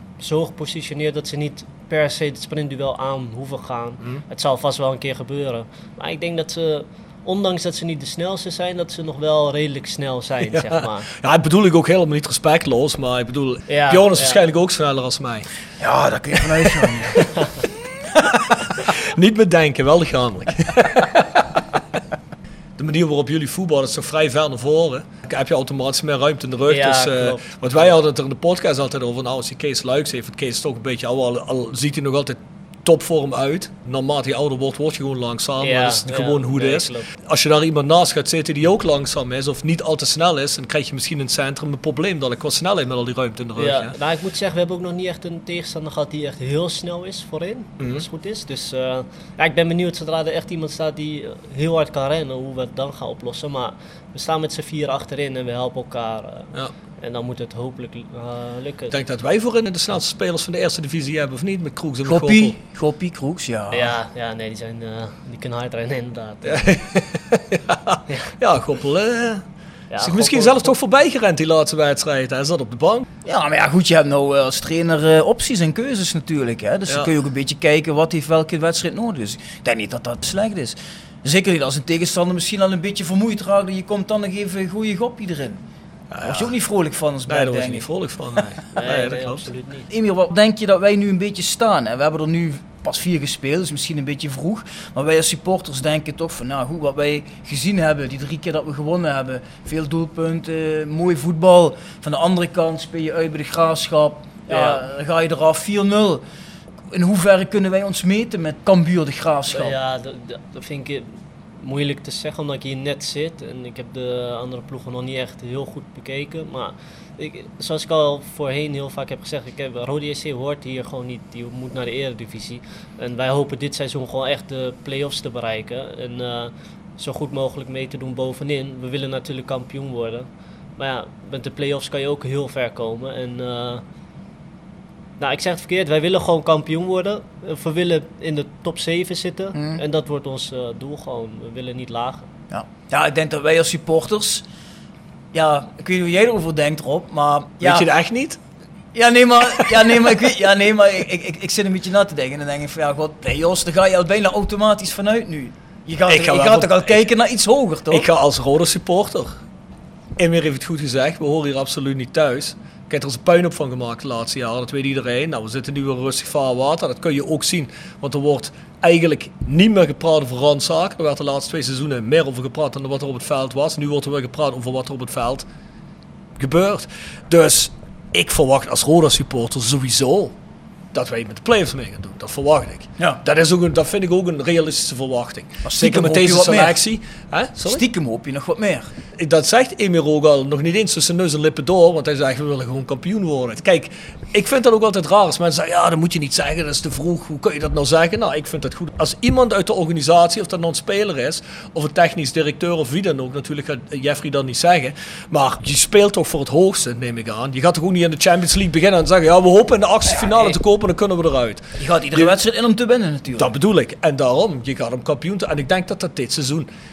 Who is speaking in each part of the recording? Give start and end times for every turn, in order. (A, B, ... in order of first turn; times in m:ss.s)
0:00.2-0:11.1 A
0:10.5-0:15.5 B
0:13.7-0:14.4 A
0:15.8-0:17.2 C
0:18.5-0:21.2 B
0:22.8-0:43.9 B
0:26.7-0:28.0 A
0:35.6-0:37.1 A
0:43.6-0:59.0 A
0:47.8-0:48.0 B
0:58.9-1:02.5 B
1:02.0-1:03.9 C
1:03.7-1:06.8 A
1:06.4-1:09.4 B
1:09.9-1:10.7 A
1:10.0-1:13.0 B
1:13.2-1:25.6 C
1:26.1-1:26.5 B
1:26.2-1:27.8 C
1:27.3-1:29.5 B
1:28.8-1:29.9 A
1:29.9-1:46.2 C
1:44.5-1:44.8 A
1:46.9-1:49.8 C
1:49.5-2:13.8 A
2:15.2-2:22.2 A
2:19.5-2:19.8 C
2:22.5-2:24.4 C
2:25.3-2:27.9 C
2:27.6-2:28.4 B
2:28.9-2:38.1 C
2:36.1-2:37.1 B
2:37.9-2:39.4 B
2:40.2-2:55.4 B
2:56.4-3:00.3 B
3:00.9-3:07.8 B
3:05.6-3:06.8 C
3:07.6-3:08.9 C
3:09.2-3:32.4 B
3:31.8-3:33.5 C
3:33.4-3:36.7 B